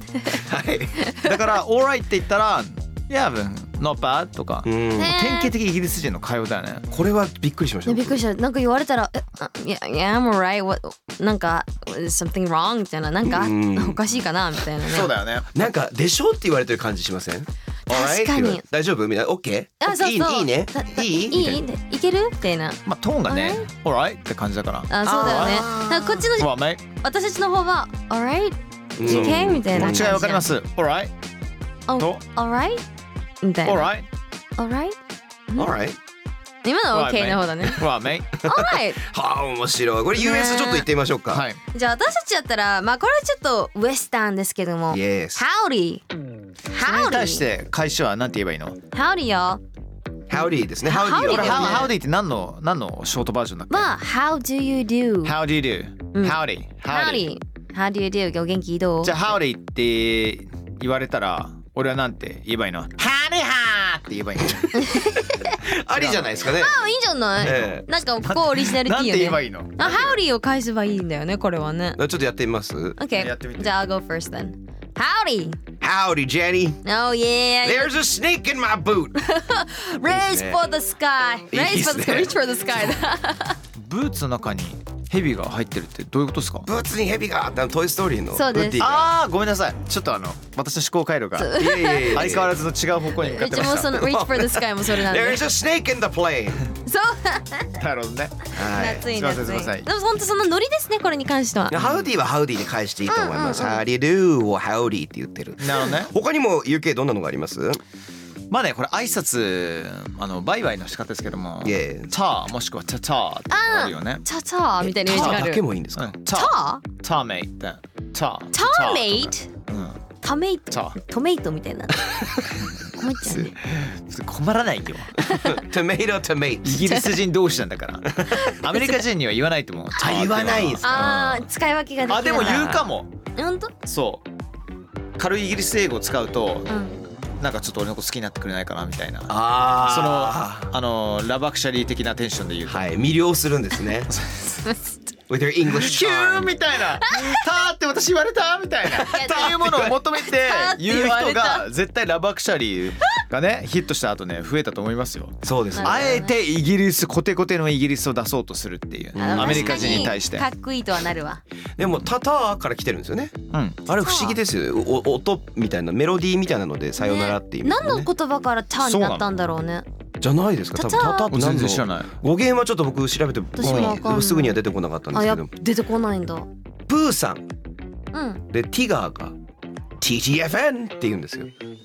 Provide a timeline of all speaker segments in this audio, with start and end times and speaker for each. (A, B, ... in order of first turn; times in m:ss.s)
0:00.1-0:00.4 A
0:00.3-0:01.0 B
0:01.0-0:01.4 A
0:01.2-0:06.9 C
0:04.7-0:05.1 B
0:05.0-0:05.5 A
0:06.9-0:08.2 B
0:07.9-0:15.1 A
0:13.2-0:14.0 B
0:14.8-0:15.7 C
0:15.5-0:21.6 B
0:17.9-0:18.6 A
0:19.8-0:23.7 A
0:22.9-0:26.8 C
0:24.9-0:30.5 A
0:25.0-0:26.2 B
0:29.0-0:30.2 B
0:29.0-0:31.1 C
0:31.9-0:32.8 A
0:33.4-0:33.9 A
0:33.6-0:34.1 C
0:34.6-0:35.0 A
0:35.6-0:36.0 B
0:36.6-0:37.9 A
0:36.9-0:38.4 C
0:38.4-0:39.0 A
0:38.4-0:41.4 B
0:40.2-0:40.9 A
0:41.3-0:41.6 C
0:41.7-0:46.0 A
0:44.9-0:45.4 B
0:46.7-0:47.4 A
0:46.8-0:48.8 C
0:48.9-0:49.6 A
0:50.3-0:51.9 B
0:50.8-0:51.9 A
0:51.2-0:53.9 C
0:53.7-0:55.4 A
0:55.2-0:57.3 C
0:56.1-0:59.2 A
0:59.0-1:05.1 C
1:04.7-1:05.6 A
1:05.6-1:06.8 B
1:05.9-1:06.5 C
1:06.4-1:12.0 A
1:07.4-1:07.9 B
1:07.4-1:10.2 C
1:12.0-1:13.0 B
1:13.0-1:15.6 A
1:13.1-1:13.8 C
1:15.8-1:16.8 B
1:16.8-1:17.9 A
1:17.6-1:19.2 B
1:19.2-1:23.6 A
1:20.1-1:20.6 B
1:21.5-1:22.4 B
1:23.8-1:26.7 C
1:26.7-1:29.1 B
1:28.3-1:28.8 A
1:28.8-1:34.1 C
1:31.4-1:32.4 A
1:31.6-1:32.5 B
1:33.2-1:35.4 A
1:33.9-1:36.7 B
1:36.8-1:37.7 A
1:37.8-1:38.5 C
1:38.5-1:39.1 B
1:38.6-1:41.8 A
1:39.0-1:39.9 C
1:41.7-1:47.8 B
1:41.8-1:42.1 C
1:43.1-1:43.8 A
1:45.6-1:46.1 C
1:48.5-1:54.2 C
1:51.6-1:52.1 B
1:53.5-1:55.6 A
1:54.8-1:56.2 B
1:55.1-2:00.0 C
1:56.3-1:56.8 A
1:58.5-1:59.5 A
2:00.2-2:02.2 A
2:00.7-2:01.0 C
2:02.6-2:05.3 C
2:03.0-2:03.6 A
2:05.2-2:05.6 A
2:05.3-2:06.9 B
2:06.6-2:11.5 C
2:06.8-2:07.2 A
2:08.4-2:09.0 A
2:10.0-2:11.1 B
2:10.8-2:13.7 A
2:12.1-2:13.1 C
2:13.8-2:14.3 C
2:15.2-2:16.7 C
2:16.7-2:17.0 A
2:17.4-2:22.9 C
2:19.3-2:20.7 B
2:22.7-2:24.1 B
2:24.1-2:24.6 C
2:24.7-2:24.9 A
2:25.3-2:26.5 B
2:25.7-2:40.5 C
2:27.1-2:27.4 A
2:28.9-2:30.0 B
2:29.0-2:31.7 A
2:35.4-2:36.2 B
2:35.7-2:36.4 A
2:39.2-2:40.1 B
2:39.2-2:41.4 A
2:41.8-2:48.1 B
2:43.5-2:43.8 C
2:44.0-2:44.4 A
2:47.0-2:49.9 A
2:48.8-2:49.3 C
2:50.2-2:55.5 B
2:50.8-2:51.3 A
2:51.3-2:52.1 C
2:53.6-2:54.6 A
2:53.6-2:54.0 C
2:55.1-2:56.5 A
2:56.9-2:57.5 B
2:58.1-2:58.4 A
2:58.5-2:59.4 B
3:00.0-3:01.5 B